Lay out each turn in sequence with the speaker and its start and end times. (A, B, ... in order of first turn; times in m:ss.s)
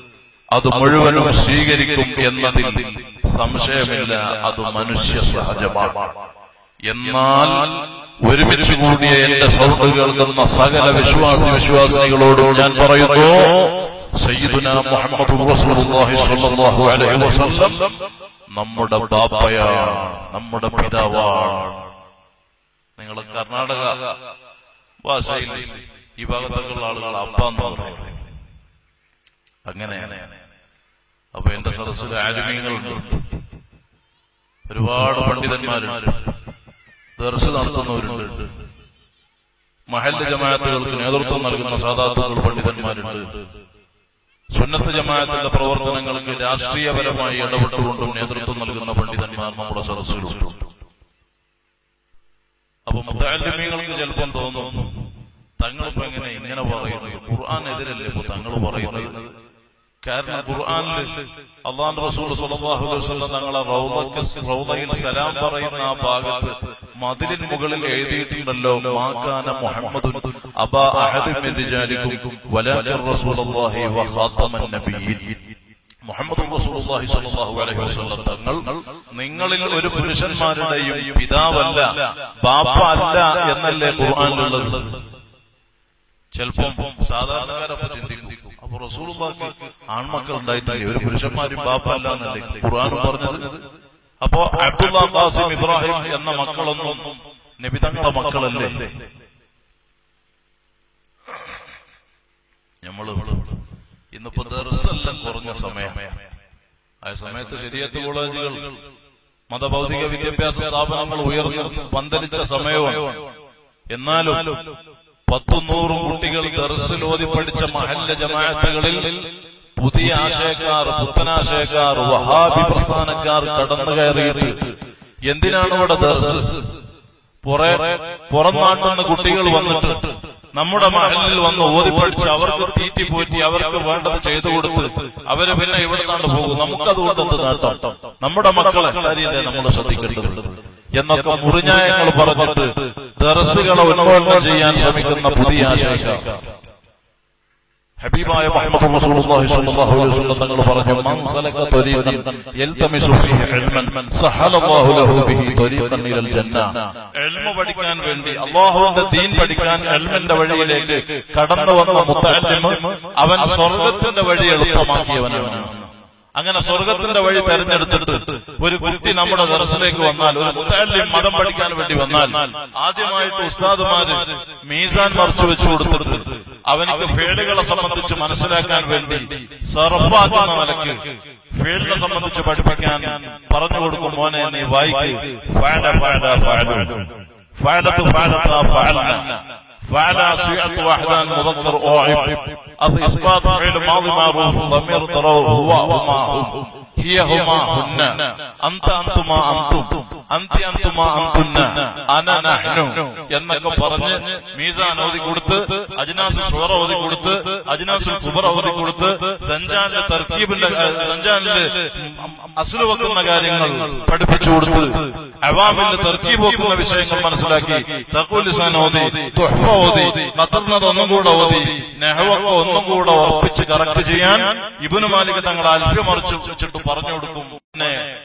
0:00.5-0:06.2 A
0:06.9-0:17.9 A
0:18.6-0:21.8 A
0:23.0-0:24.2 A
0:25.0-0:28.2 A
0:29.7-0:30.3 A
0:31.4-0:33.2 A
0:34.7-0:36.2 A
0:37.2-0:38.5 A
0:39.9-0:43.4 A
0:44.5-0:50.7 A
0:52.9-0:55.0 A
0:55.6-0:59.3 A
1:00.0-1:15.4 A
1:16.1-1:25.0 A
1:26.3-1:33.6 A
1:34.2-1:38.9 A
1:42.8-1:43.5 A
1:44.1-1:46.2 A
1:47.0-1:48.7 A
1:49.5-1:53.2 A
1:53.9-1:54.7 A
1:55.3-2:04.7 A
2:05.3-2:06.7 A
2:07.4-2:26.4 A
2:28.0-3:48.0 A